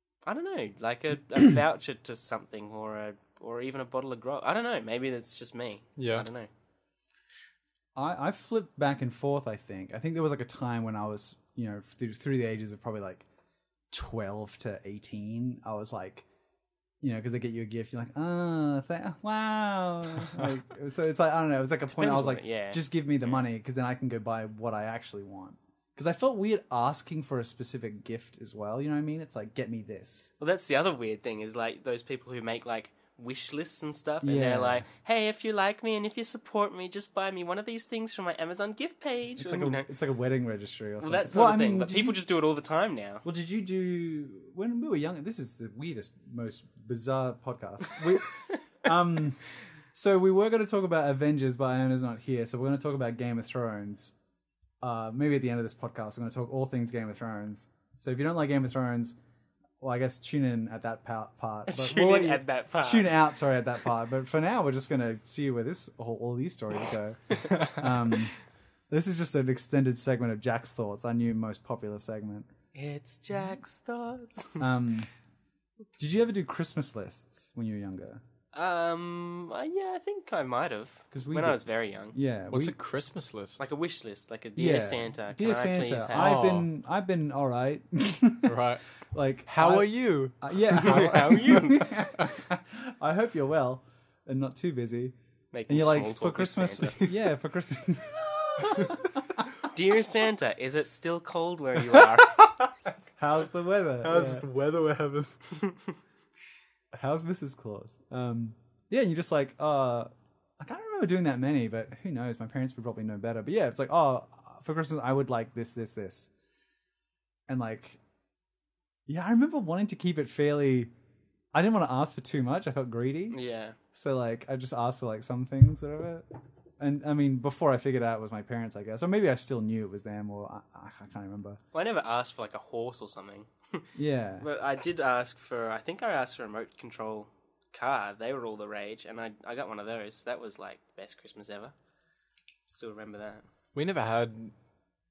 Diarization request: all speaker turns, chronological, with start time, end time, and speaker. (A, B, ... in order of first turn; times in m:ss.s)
0:00.2-0:06.5 A
0:06.0-0:06.3 B
0:08.0-0:13.2 C
0:13.9-0:16.3 C
0:17.0-0:30.3 C
0:21.9-0:22.8 A
0:30.4-0:39.9 A
0:34.2-0:34.9 C
0:39.4-0:42.2 C
0:41.0-0:43.2 A
0:43.2-0:54.1 C
0:54.8-0:59.2 C
0:59.8-1:08.4 C
1:01.7-1:03.1 A
1:08.9-1:12.5 C
1:12.7-1:14.7 A
1:14.6-1:15.1 C
1:16.0-1:18.2 C
1:18.5-1:22.2 A
1:21.1-1:21.6 C
1:22.1-1:22.8 C
1:22.5-1:23.6 B
1:23.6-1:26.3 A
1:24.6-1:35.2 C
1:26.2-1:26.7 B
1:28.4-1:28.8 B
1:29.5-1:32.3 B
1:30.7-1:31.9 A
1:35.5-1:37.0 A
1:35.7-1:39.5 C
1:39.7-1:42.4 A
1:42.0-1:42.5 B
1:43.2-1:44.5 C
1:44.0-1:45.6 B
1:46.9-1:56.3 C
1:57.5-1:58.0 C
1:59.1-2:00.9 C
2:01.5-2:03.4 C
2:03.3-2:03.8 A
2:03.9-2:06.3 C
2:06.8-2:11.6 C
2:11.7-2:13.9 A
2:14.0-2:14.4 C
2:14.4-2:21.7 A
2:22.7-2:23.4 A
2:23.8-2:24.5 B